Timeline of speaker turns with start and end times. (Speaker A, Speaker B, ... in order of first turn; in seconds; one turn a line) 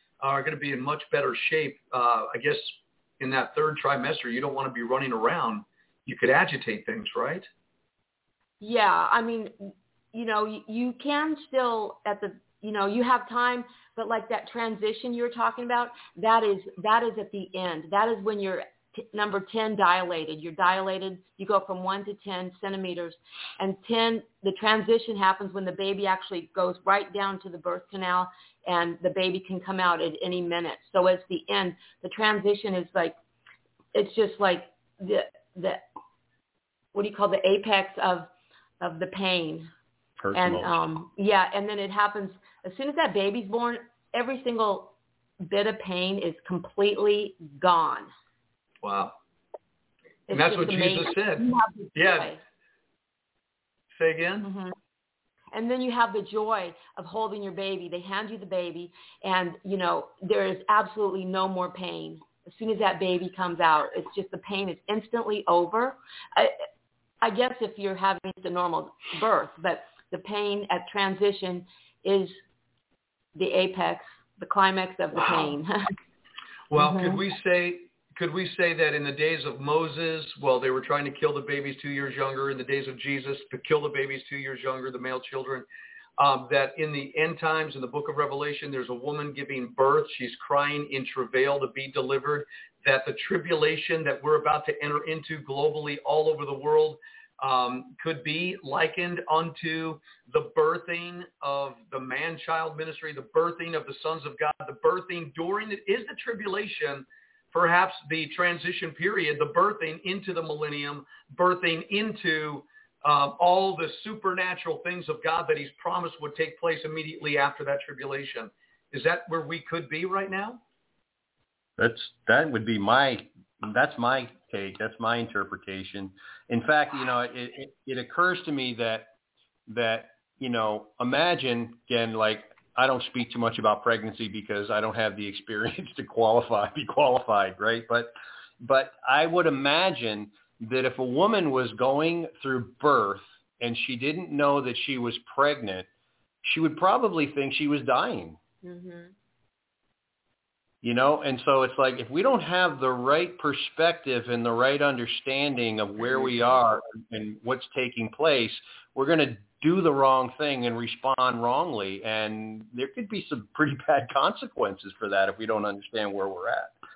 Speaker A: 0.2-7.4
Speaker B: 8.6-33.1
Speaker B: 33.9-35.8
Speaker B: 36.9-39.7
Speaker C: 40.2-40.9
Speaker B: 40.3-48.1
Speaker A: 48.8-49.1
Speaker B: 50.3-52.4
Speaker A: 50.3-52.3
Speaker A: 53.9-54.5
Speaker B: 54.4-54.7
Speaker B: 55.5-66.6
Speaker B: 67.2-72.4
Speaker B: 73.3-75.8
Speaker A: 76.7-85.7
Speaker B: 76.8-77.2
Speaker A: 86.2-120.6
Speaker C: 121.8-129.1
Speaker C: 129.7-145.9
Speaker C: 146.4-148.4
Speaker B: 148.6-149.1
Speaker C: 150.8-166.7